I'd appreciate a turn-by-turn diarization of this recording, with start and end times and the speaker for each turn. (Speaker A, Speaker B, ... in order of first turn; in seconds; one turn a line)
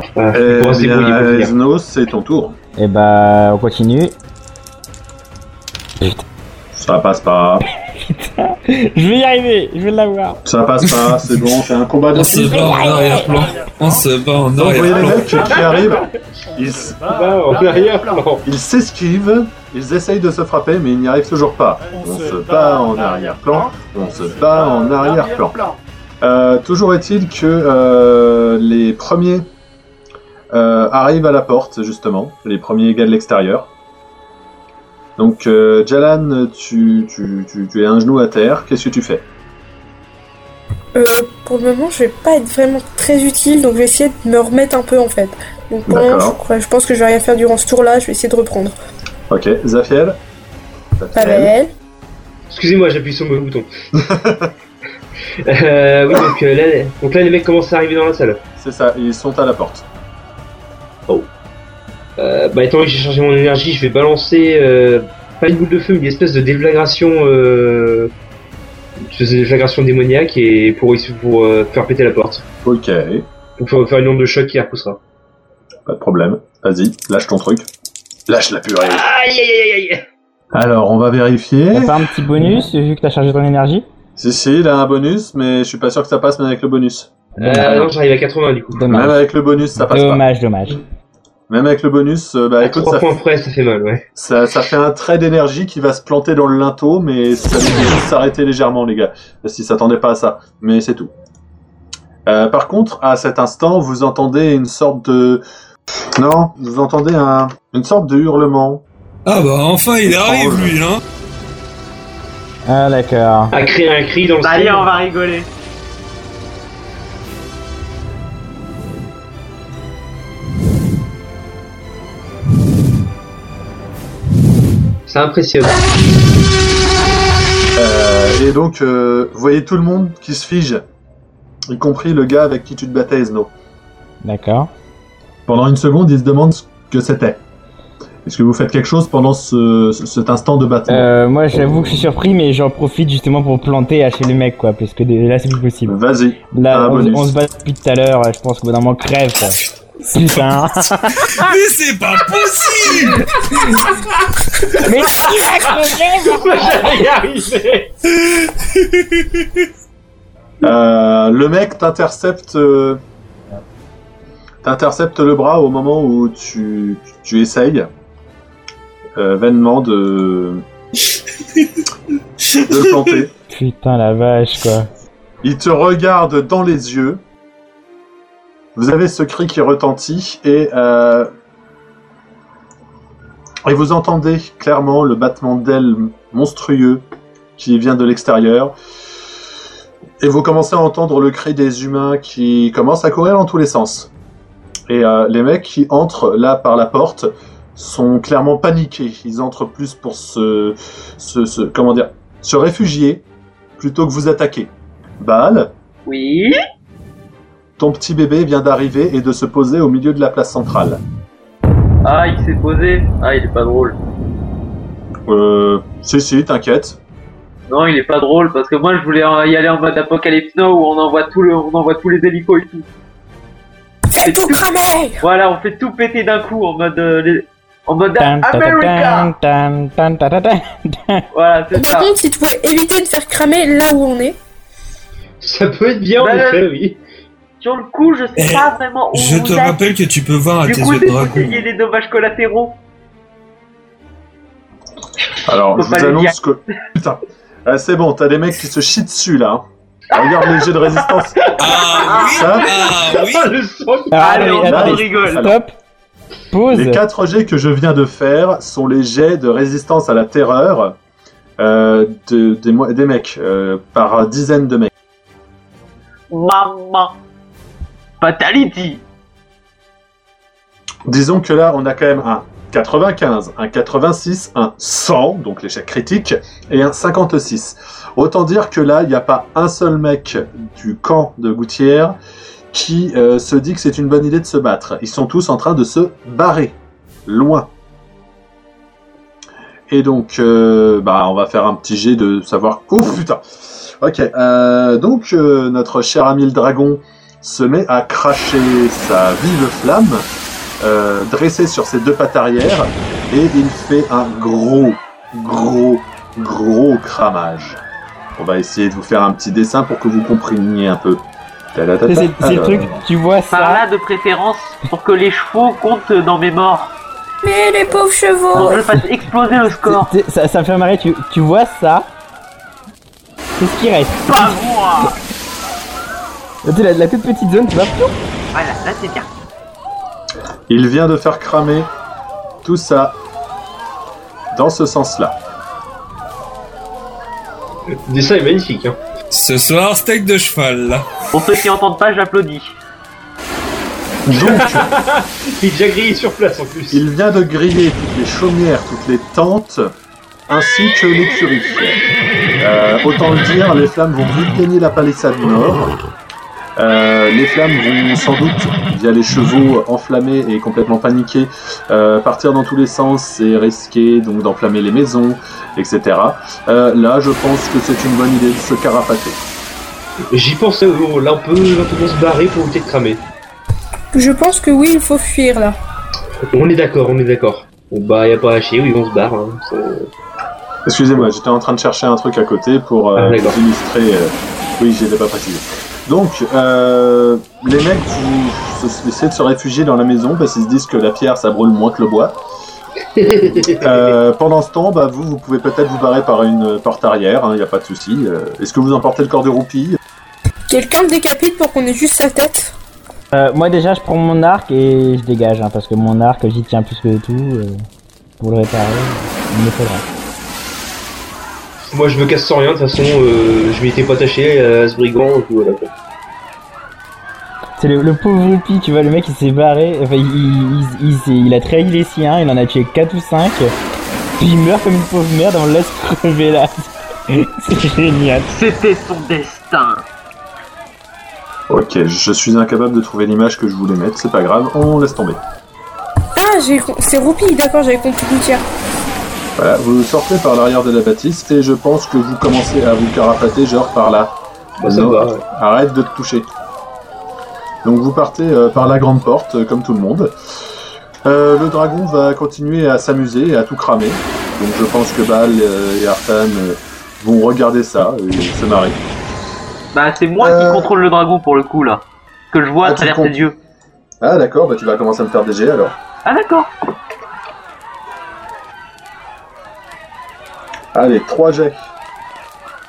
Speaker A: 0.2-1.5
Speaker B: 0.3-2.5
Speaker C: 2.8-4.1
Speaker B: 6.7-7.7
Speaker C: 7.9-10.4
Speaker B: 10.4-12.8
Speaker D: 12.1-15.6
Speaker B: 14.5-17.1
Speaker A: 17.1-18.4
Speaker B: 18.4-25.6
Speaker B: 26.2-29.4
Speaker B: 30.5-33.7
Speaker B: 35.2-39.2
Speaker E: 40.9-48.7
Speaker B: 45.9-46.4
Speaker B: 49.3-50.2
Speaker B: 51.0-51.5
Speaker E: 51.1-51.7
Speaker A: 52.5-53.7
Speaker B: 53.9-54.5
Speaker A: 55.4-58.4
Speaker B: 58.6-59.9
Speaker A: 62.2-68.1
Speaker A: 69.0-72.4
Speaker B: 72.6-73.2
Speaker A: 73.6-75.0
Speaker B: 75.8-77.7
Speaker B: 78.3-79.1
Speaker A: 78.8-80.0
Speaker B: 80.5-82.0
Speaker C: 81.7-83.8
Speaker B: 84.2-87.9
Speaker A: 87.4-88.9
Speaker C: 88.7-89.2
Speaker B: 88.9-90.2
Speaker C: 89.9-90.8
Speaker B: 91.5-93.2
Speaker A: 92.6-94.0
Speaker B: 94.2-101.1
Speaker B: 102.2-105.4
Speaker B: 106.2-108.8
Speaker D: 109.2-111.0
Speaker B: 110.0-110.8
Speaker C: 112.7-113.5
Speaker A: 113.5-114.9
Speaker F: 114.4-115.5
Speaker A: 125.1-125.8
Speaker B: 127.7-130.8
Speaker B: 131.7-133.5
Speaker C: 134.2-134.7
Speaker B: 135.4-137.4
Speaker B: 138.2-141.1
Speaker C: 140.9-145.9
Speaker B: 145.8-147.4
Speaker C: 146.5-151.5
Speaker D: 151.3-153.4
Speaker C: 153.4-153.9
Speaker C: 154.7-156.9
Speaker A: 156.2-157.9
Speaker D: 158.1-159.5
Speaker B: 160.6-163.0
Speaker B: 164.6-167.9
Speaker B: 169.2-170.6
Speaker D: 172.5-173.1
Speaker B: 172.6-173.3
Speaker C: 173.5-174.9
Speaker B: 175.4-177.2
Speaker B: 178.7-181.3
Speaker B: 183.6-187.0
Speaker B: 187.6-188.7
Speaker B: 190.2-194.1
Speaker B: 194.9-203.2
Speaker B: 203.8-205.7
Speaker F: 206.1-206.6
Speaker B: 207.8-211.0
Speaker F: 212.0-214.0
Speaker B: 215.3-217.0
Speaker F: 217.7-222.8
Speaker E: 224.1-225.2
Speaker F: 224.2-224.6
Speaker F: 225.2-229.3
Speaker C: 228.2-231.2
Speaker F: 231.3-232.1
Speaker E: 231.7-234.3
Speaker A: 235.4-237.0
Speaker F: 236.2-236.7
Speaker F: 237.6-239.8
Speaker D: 238.3-241.7
Speaker F: 240.6-242.8
Speaker B: 245.4-251.5
Speaker F: 245.8-246.3
Speaker D: 251.6-253.6
Speaker A: 251.7-252.2
Speaker F: 251.9-252.7
Speaker B: 252.2-252.8
Speaker A: 252.8-254.5
Speaker C: 254.1-255.7
Speaker F: 254.2-255.4
Speaker B: 254.6-255.6
Speaker C: 256.5-257.0
Speaker B: 256.7-260.9
Speaker B: 261.6-264.9
Speaker F: 266.3-267.2
Speaker F: 268.2-269.0
Speaker B: 271.1-282.1
Speaker B: 282.7-287.7
Speaker B: 289.9-300.2
Speaker B: 300.8-307.8
Speaker B: 308.4-311.2
Speaker B: 311.7-312.9
Speaker C: 312.1-313.8
Speaker F: 313.5-316.9
Speaker E: 317.4-318.8
Speaker F: 318.5-320.1
Speaker C: 319.8-322.1
Speaker C: 323.6-325.1
Speaker F: 324.3-325.2
Speaker C: 326.6-328.1
Speaker F: 328.5-329.3
Speaker B: 330.7-331.9
Speaker B: 332.6-333.2
Speaker B: 334.5-335.4
Speaker A: 338.1-339.0
Speaker D: 339.3-341.1
Speaker F: 341.3-342.7
Speaker B: 344.2-344.9
Speaker A: 344.3-347.0
Speaker B: 346.9-349.8
Speaker B: 350.5-352.0
Speaker B: 352.6-355.9
Speaker B: 356.8-369.4
Speaker A: 370.3-373.2
Speaker E: 374.1-375.8
Speaker A: 376.5-380.1
Speaker B: 380.8-392.4
Speaker A: 383.1-383.6
Speaker A: 393.1-394.0
Speaker B: 393.7-400.0
Speaker E: 400.7-402.7
Speaker C: 403.3-407.8
Speaker C: 408.4-410.0
Speaker A: 411.9-415.9
Speaker C: 417.8-423.7
Speaker C: 424.4-428.5
Speaker F: 428.5-430.0
Speaker B: 431.7-435.4
Speaker E: 436.4-438.6
Speaker B: 439.6-446.5
Speaker A: 444.8-445.4
Speaker B: 447.8-450.3
Speaker B: 451.2-459.0
Speaker F: 459.9-463.5
Speaker B: 460.4-460.9
Speaker B: 462.8-463.5
Speaker B: 464.2-466.0
Speaker F: 466.2-466.7
Speaker B: 470.9-471.9